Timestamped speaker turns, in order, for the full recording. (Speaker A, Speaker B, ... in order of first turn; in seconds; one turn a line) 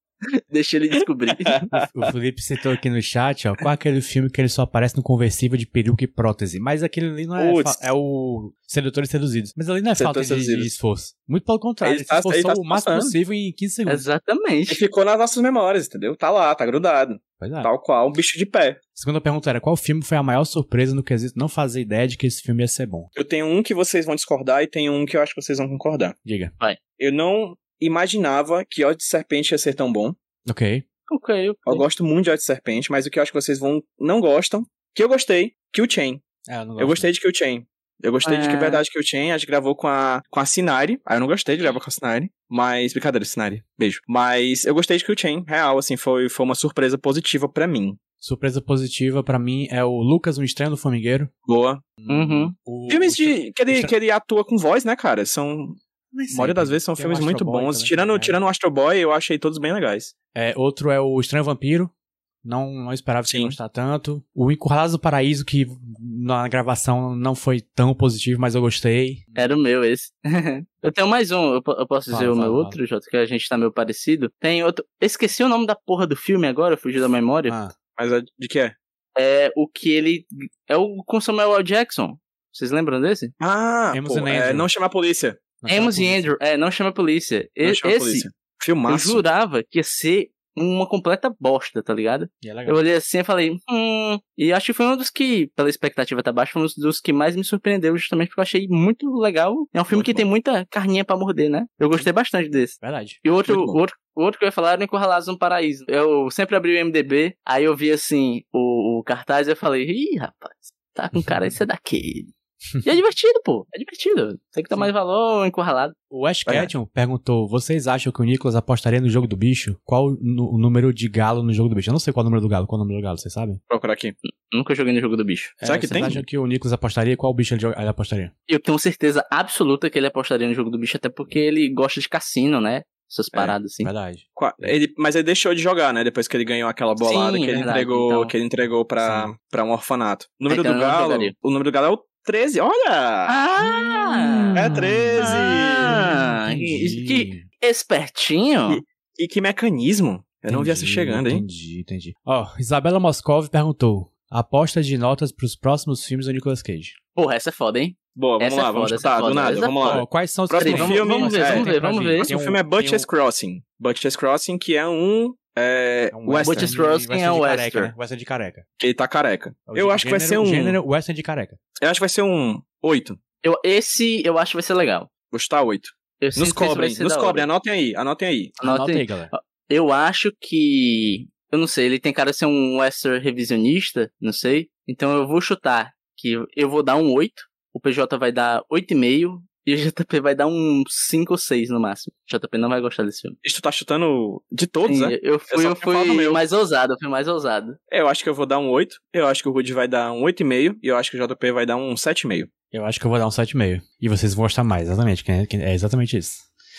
Speaker A: 0.5-1.6
Speaker B: 1.5-1.8
Speaker C: 1.6-14.0
Speaker B: 7.4-7.8
Speaker B: 10.0-10.7
Speaker B: 11.8-13.1
Speaker A: 13.9-14.8
Speaker B: 14.7-18.8
Speaker C: 17.4-17.7
Speaker C: 18.9-23.1
Speaker B: 23.1-26.1
Speaker C: 26.2-26.5
Speaker B: 27.0-30.2
Speaker C: 30.4-30.8
Speaker A: 31.1-31.8
Speaker B: 31.6-36.2
Speaker C: 36.5-37.1
Speaker B: 36.8-48.0
Speaker A: 38.2-38.8
Speaker C: 48.2-51.3
Speaker B: 51.4-51.8
Speaker C: 52.0-53.9
Speaker A: 52.1-52.5
Speaker B: 52.9-55.8
Speaker C: 56.1-58.4
Speaker B: 56.3-60.1
Speaker C: 60.3-61.9
Speaker C: 62.4-69.5
Speaker B: 63.3-63.6
Speaker A: 69.3-77.6
Speaker C: 72.1-72.8
Speaker C: 77.5-77.7
Speaker B: 78.0-78.8
Speaker A: 79.2-83.3
Speaker B: 83.4-85.4
Speaker C: 83.9-84.7
Speaker C: 85.6-86.3
Speaker A: 85.7-88.3
Speaker B: 87.6-89.2
Speaker A: 88.9-112.3
Speaker C: 92.4-92.8
Speaker B: 99.9-100.2
Speaker C: 102.8-103.2
Speaker B: 103.5-103.8
Speaker A: 112.8-115.9
Speaker C: 116.1-123.6
Speaker B: 116.5-116.7
Speaker B: 123.7-124.1
Speaker A: 124.5-126.1
Speaker C: 125.6-128.3
Speaker B: 125.6-126.2
Speaker A: 128.5-133.9
Speaker C: 133.8-134.7
Speaker B: 134.3-143.4
Speaker A: 137.0-138.3
Speaker C: 139.0-139.3
Speaker A: 140.5-141.3
Speaker A: 143.3-148.8
Speaker C: 144.5-147.4
Speaker B: 144.5-146.0
Speaker B: 148.7-151.4
Speaker C: 150.5-157.0
Speaker A: 157.1-160.0
Speaker B: 158.1-166.7
Speaker C: 159.8-163.1
Speaker A: 160.6-162.3
Speaker C: 166.1-168.6
Speaker A: 166.4-167.9
Speaker B: 168.8-170.8
Speaker C: 169.7-171.6
Speaker B: 171.8-173.2
Speaker A: 173.4-175.1
Speaker B: 175.3-178.6
Speaker A: 176.2-177.4
Speaker C: 178.6-179.3
Speaker A: 178.6-193.3
Speaker B: 193.4-196.4
Speaker A: 194.9-197.8
Speaker B: 197.9-202.5
Speaker C: 202.7-206.5